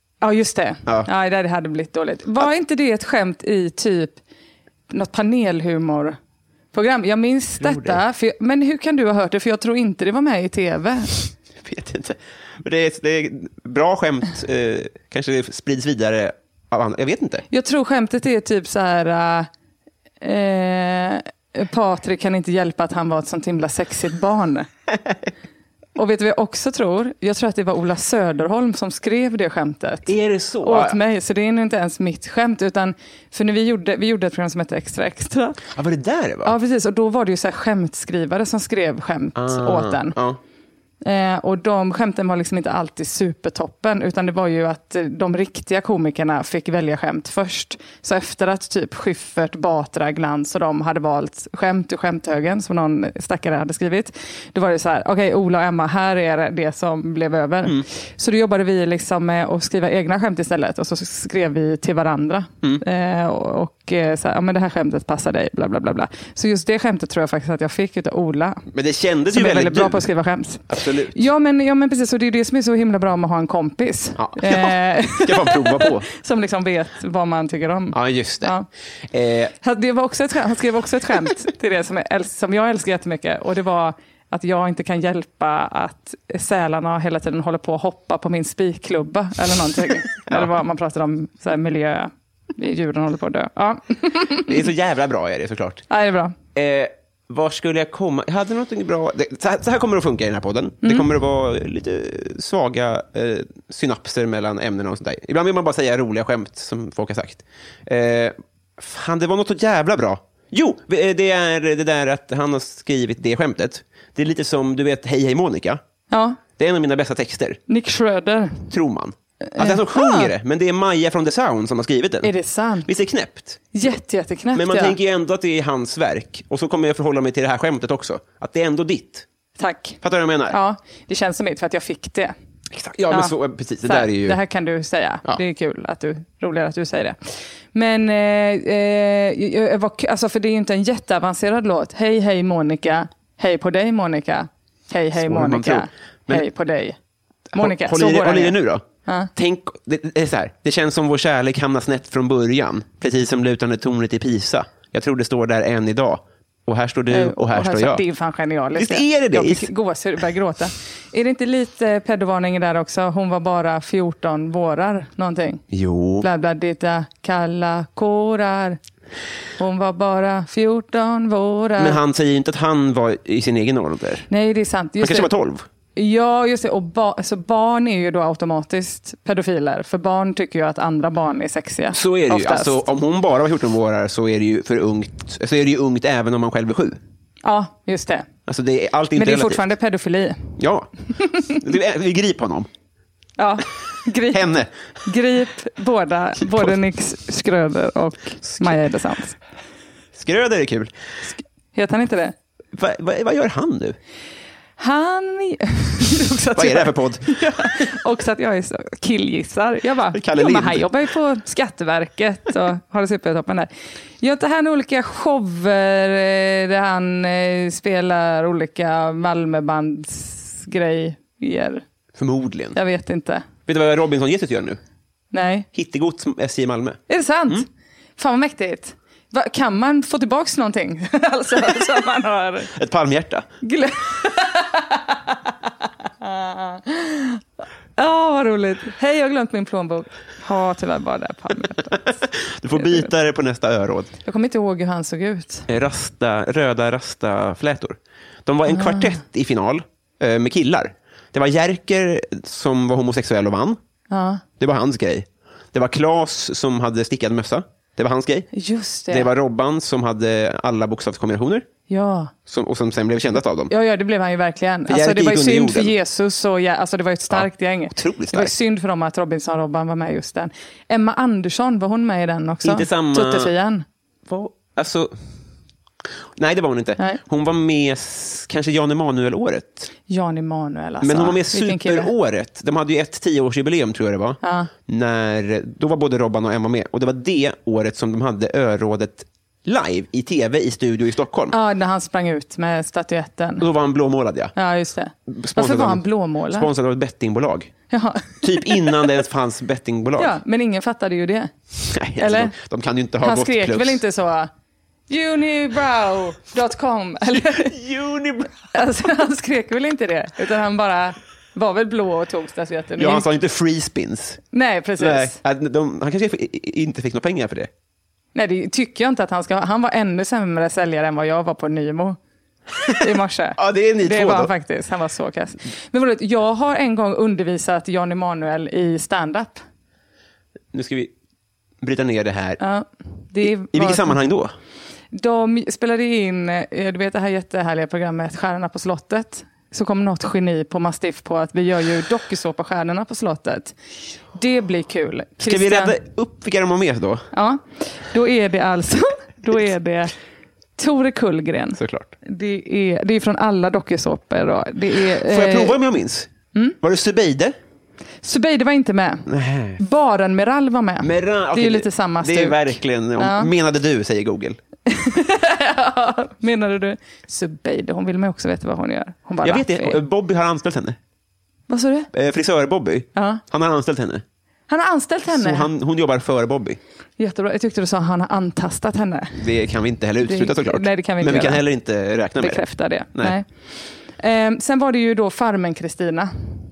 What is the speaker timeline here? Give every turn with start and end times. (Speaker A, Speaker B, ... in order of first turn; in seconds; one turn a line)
Speaker A: 0.2-4.2
Speaker A: 4.9-6.2
Speaker A: 6.7-11.2
Speaker B: 7.6-8.0
Speaker B: 11.6-17.4
Speaker A: 17.5-19.5
Speaker A: 20.2-24.7
Speaker A: 25.9-35.6
Speaker B: 30.1-31.0
Speaker B: 35.7-36.5
Speaker A: 36.4-40.2
Speaker B: 39.3-40.4
Speaker A: 41.0-68.7
Speaker B: 68.7-70.1
Speaker A: 69.3-78.7
Speaker B: 70.7-71.2
Speaker B: 74.2-76.1
Speaker B: 77.9-78.5
Speaker B: 79.1-79.5
Speaker A: 79.6-94.5
Speaker B: 94.5-95.8
Speaker A: 95.9-96.3
Speaker B: 96.5-115.8
Speaker A: 100.8-101.1
Speaker A: 116.1-116.4
Speaker B: 116.5-117.6
Speaker A: 117.7-118.7
Speaker B: 118.7-122.3
Speaker A: 119.5-120.3
Speaker A: 122.2-122.9
Speaker B: 122.8-123.7
Speaker A: 123.7-125.0
Speaker B: 124.5-129.2
Speaker A: 129.6-132.3
Speaker B: 130.0-130.6
Speaker B: 132.7-134.4
Speaker A: 133.1-137.2
Speaker A: 137.7-147.0
Speaker B: 145.1-146.5
Speaker B: 147.5-158.0
Speaker A: 147.5-149.3
Speaker A: 157.1-165.6
Speaker B: 158.7-159.7
Speaker B: 165.7-166.2
Speaker A: 166.2-168.8
Speaker A: 169.6-172.0
Speaker B: 171.8-174.3
Speaker A: 174.3-175.3
Speaker B: 175.0-175.7
Speaker A: 175.9-182.8
Speaker B: 181.9-187.0
Speaker A: 187.4-188.3
Speaker B: 188.5-189.7
Speaker A: 189.2-190.5
Speaker B: 190.6-190.9
Speaker B: 191.4-192.7
Speaker A: 193.4-194.5
Speaker B: 194.3-194.7
Speaker A: 195.0-199.3
Speaker B: 196.4-196.8
Speaker B: 198.4-198.8
Speaker B: 200.1-200.9
Speaker A: 201.7-202.3
Speaker B: 202.7-204.0
Speaker A: 204.8-213.7
Speaker B: 206.5-207.9
Speaker B: 210.1-210.9
Speaker A: 214.2-221.8
Speaker B: 222.2-222.8
Speaker A: 222.7-223.4
Speaker B: 223.7-224.8
Speaker A: 225.3-225.7
Speaker B: 225.7-227.6
Speaker A: 227.1-227.7
Speaker A: 228.2-232.7
Speaker B: 232.7-233.5
Speaker A: 233.6-235.5
Speaker A: 236.2-237.4
Speaker A: 238.0-242.2
Speaker B: 242.1-244.1
Speaker A: 242.8-243.1
Speaker A: 244.2-245.7
Speaker B: 245.7-253.8
Speaker A: 248.7-249.2
Speaker A: 254.1-254.4
Speaker B: 254.6-258.5
Speaker A: 258.5-259.3
Speaker B: 259.1-261.7
Speaker A: 261.9-262.3
Speaker B: 262.5-263.7
Speaker A: 263.7-273.8
Speaker B: 264.9-265.9
Speaker B: 267.3-268.5
Speaker B: 272.6-273.5
Speaker B: 274.2-275.1
Speaker B: 276.4-279.9
Speaker A: 280.1-282.1
Speaker B: 281.0-291.6
Speaker A: 284.4-284.7
Speaker A: 291.5-293.7
Speaker B: 293.6-294.5
Speaker A: 294.6-296.7
Speaker B: 295.3-297.7
Speaker A: 297.9-299.1
Speaker B: 298.4-300.4
Speaker A: 300.2-301.5
Speaker B: 301.8-304.0
Speaker A: 302.2-302.5
Speaker A: 303.2-304.5
Speaker A: 305.1-307.8
Speaker B: 307.3-308.6
Speaker A: 308.7-313.2
Speaker B: 313.0-314.4
Speaker A: 314.5-315.4
Speaker B: 315.0-317.7
Speaker A: 318.3-322.2
Speaker A: 323.0-329.6
Speaker B: 323.6-324.5
Speaker B: 330.7-331.1
Speaker B: 331.8-332.6
Speaker A: 332.6-334.2
Speaker B: 333.4-334.5
Speaker A: 335.1-343.8
Speaker A: 344.3-346.0
Speaker B: 345.4-347.3
Speaker A: 347.3-350.1
Speaker A: 350.8-355.8
Speaker B: 351.8-352.1
Speaker B: 355.0-357.6
Speaker A: 358.2-363.5
Speaker B: 359.3-359.8
Speaker B: 361.0-364.6
Speaker A: 364.9-370.0
Speaker B: 369.4-371.0
Speaker A: 371.7-372.1
Speaker B: 372.1-374.2
Speaker A: 373.1-373.4
Speaker A: 374.7-375.7
Speaker B: 375.3-376.8
Speaker A: 377.2-379.4
Speaker B: 379.4-383.4
Speaker A: 380.2-381.6
Speaker A: 382.4-383.5
Speaker A: 384.2-386.6